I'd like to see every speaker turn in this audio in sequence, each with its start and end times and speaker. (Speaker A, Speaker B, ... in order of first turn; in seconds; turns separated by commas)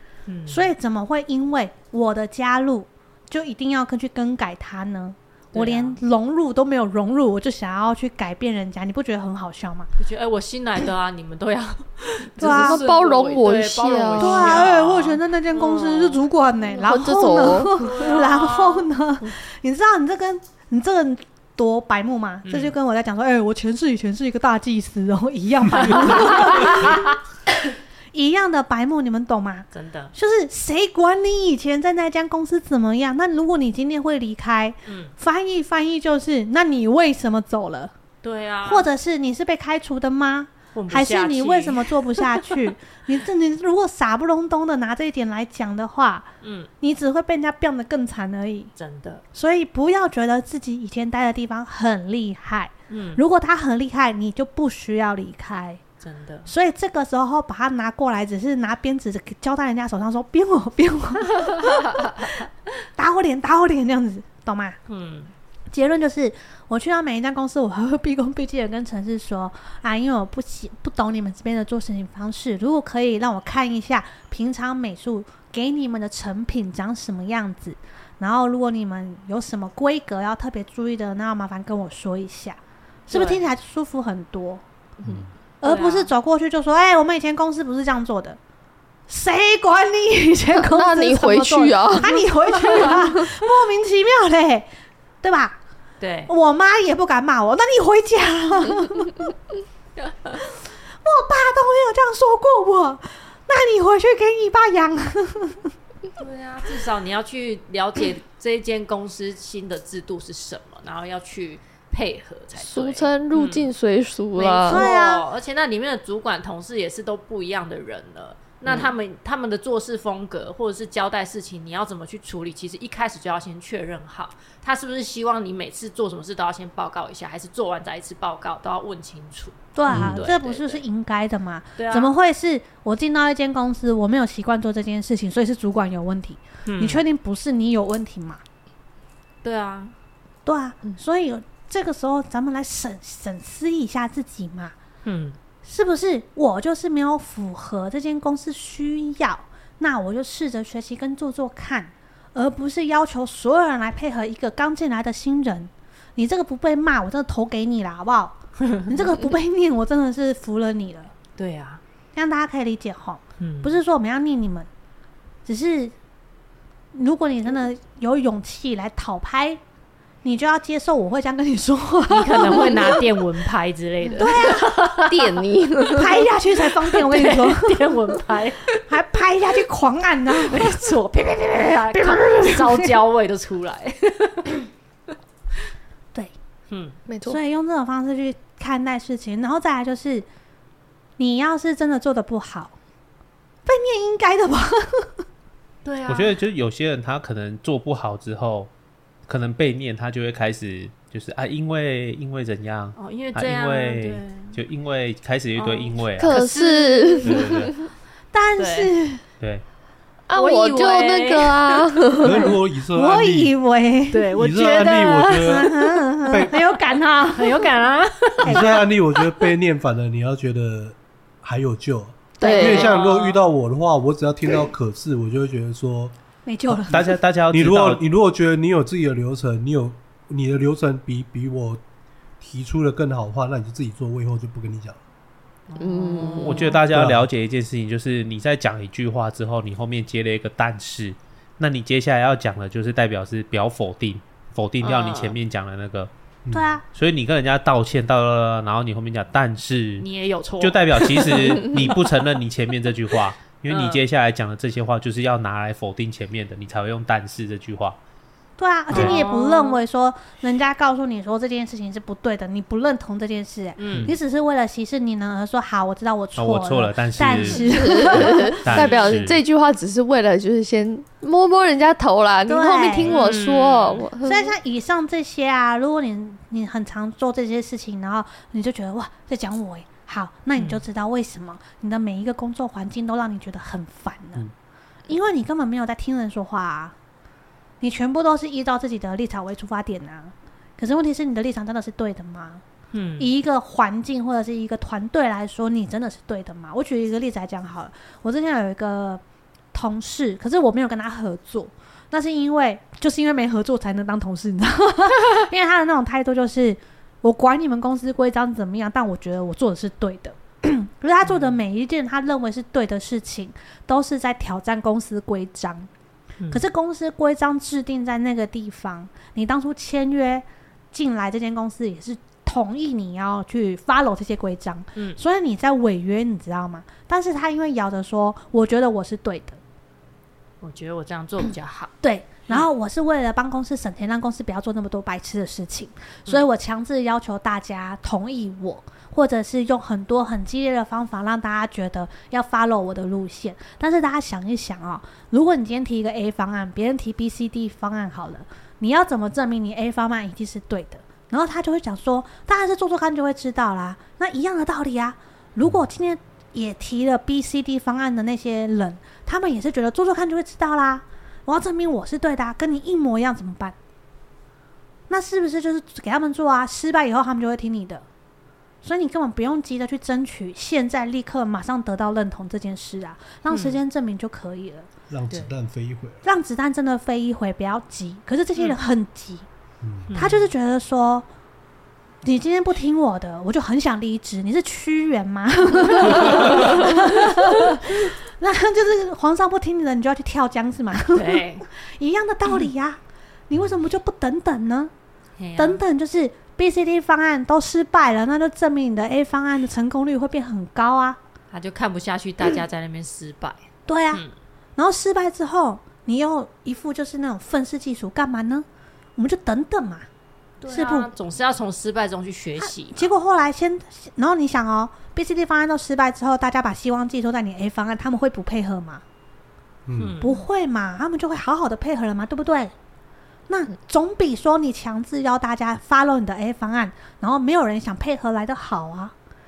Speaker A: 0.3-0.7, Speaker B: 0.5-9.9, Speaker A: 5.5-6.0, Speaker A: 10.0-16.2, Speaker C: 12.4-14.6, Speaker B: 12.4-12.8, Speaker B: 14.2-27.1, Speaker C: 16.7-17.8, Speaker A: 17.8-18.9, Speaker A: 22.4-22.8, Speaker A: 25.7-27.0, Speaker B: 28.1-37.9, Speaker A: 29.7-30.1, Speaker A: 34.9-35.1, Speaker A: 38.2-38.9, Speaker B: 38.6-46.3, Speaker A: 40.8-42.6, Speaker A: 46.4-46.7, Speaker B: 46.8-48.7, Speaker A: 48.8-49.2, Speaker B: 49.3-55.8, Speaker A: 52.9-53.2, Speaker A: 56.0-56.5, Speaker B: 56.5-62.3, Speaker B: 63.0-64.8, Speaker A: 64.9-65.3, Speaker B: 65.7-84.6, Speaker A: 83.1-83.4, Speaker D: 85.0-85.3, Speaker B: 85.6-88.4, Speaker A: 85.6-86.1, Speaker B: 89.1-94.7, Speaker C: 90.6-93.2, Speaker B: 95.2-95.6, Speaker A: 96.0-96.3, Speaker B: 96.3-99.3, Speaker B: 100.3-105.7, Speaker A: 106.2-113.7, Speaker C: 112.6-114.9, Speaker A: 114.4-130.8, Speaker B: 114.7-115.2, Speaker B: 129.8-138.4, Speaker C: 129.9-130.2, Speaker A: 131.8-132.1, Speaker A: 136.7-137.0, Speaker A: 139.4-139.9, Speaker B: 140.5-144.8, Speaker A: 145.1-145.4, Speaker B: 145.6-161.1, Speaker A: 161.4-161.8, Speaker B: 162.2-164.7, Speaker A: 163.4-163.8, Speaker B: 165.5-165.9, Speaker B: 166.9-169.6, Speaker B: 170.2-173.0, Speaker A: 172.1-175.4, Speaker B: 174.2-174.8, Speaker C: 175.1-176.2, Speaker B: 175.9-177.8, Speaker A: 176.9-178.8, Speaker B: 178.9-180.8, Speaker A: 180.3-184.7, Speaker B: 182.0-182.9, Speaker A: 186.7-187.0, Speaker C: 187.1-187.4, Speaker B: 187.3-190.3, Speaker B: 191.2-192.8, Speaker B: 193.7-195.2, Speaker A: 195.8-196.4, Speaker E: 196.1-198.7, Speaker E: 199.3-206.4, Speaker A: 203.0-204.6, Speaker A: 205.6-207.7, Speaker C: 206.2-207.7, Speaker E: 207.2-207.7, Speaker B: 208.3-209.2, Speaker A: 208.6-208.9, Speaker C: 210.3-212.6, Speaker A: 210.3-211.9, Speaker D: 212.2-213.5, Speaker B: 212.9-214.3, Speaker A: 214.1-215.8, Speaker D: 214.3-215.7, Speaker B: 215.4-217.7, Speaker D: 216.3-216.6, Speaker A: 217.3-218.8, Speaker D: 218.4-226.1, Speaker B: 218.4-218.8, Speaker B: 222.4-222.7, Speaker C: 222.4-222.9, Speaker A: 222.4-223.4, Speaker B: 226.4-227.1, Speaker D: 226.7-231.8, Speaker E: 226.9-228.0, Speaker D: 232.4-235.0, Speaker A: 235.7-236.8, Speaker C: 235.8-236.8, Speaker E: 236.3-246.1, Speaker D: 236.9-237.3, Speaker A: 244.8-245.4, Speaker D: 246.5-246.7, Speaker B: 246.5-246.8, Speaker E: 246.9-250.1, Speaker A: 250.0-252.0, Speaker E: 250.6-258.0, Speaker A: 253.7-254.0, Speaker B: 258.6-268.6, Speaker A: 258.9-259.8, Speaker E: 258.9-259.2, Speaker A: 263.8-264.2, Speaker E: 263.9-264.2, Speaker E: 266.4-269.4, Speaker C: 267.7-274.6, Speaker A: 268.7-269.1, Speaker B: 272.5-273.2, Speaker A: 273.1-274.1, Speaker B: 274.2-284.5, Speaker A: 280.6-280.8, Speaker B: 285.1-286.9, Speaker B: 287.8-292.6, Speaker A: 292.9-293.3, Speaker B: 293.2-299.2, Speaker B: 299.7-315.9, Speaker A: 311.3-311.6, Speaker B: 316.5-329.6, Speaker A: 330.6-331.9, Speaker B: 332.0-363.8, Speaker B: 365.1-368.1, Speaker B: 368.8-374.9, Speaker A: 373.5-373.8, Speaker D: 375.1-376.2, Speaker B: 376.2-379.5, Speaker D: 379.8-380.1, Speaker A: 380.1-380.5, Speaker B: 380.2-381.3, Speaker B: 382.2-393.0, Speaker A: 386.0-386.5, Speaker A: 391.1-391.7, Speaker B: 393.5-394.9, Speaker A: 395.4-395.8, Speaker B: 395.6-401.2, Speaker A: 401.5-404.3, Speaker B: 403.9-404.2, Speaker B: 404.8-408.7, Speaker B: 409.2-410.1, Speaker A: 410.6-413.1, Speaker B: 410.7-411.1, Speaker B: 412.6-419.0, Speaker D: 419.9-420.2, Speaker A: 420.0-420.5, Speaker B: 420.2-422.7, Speaker B: 423.5-429.1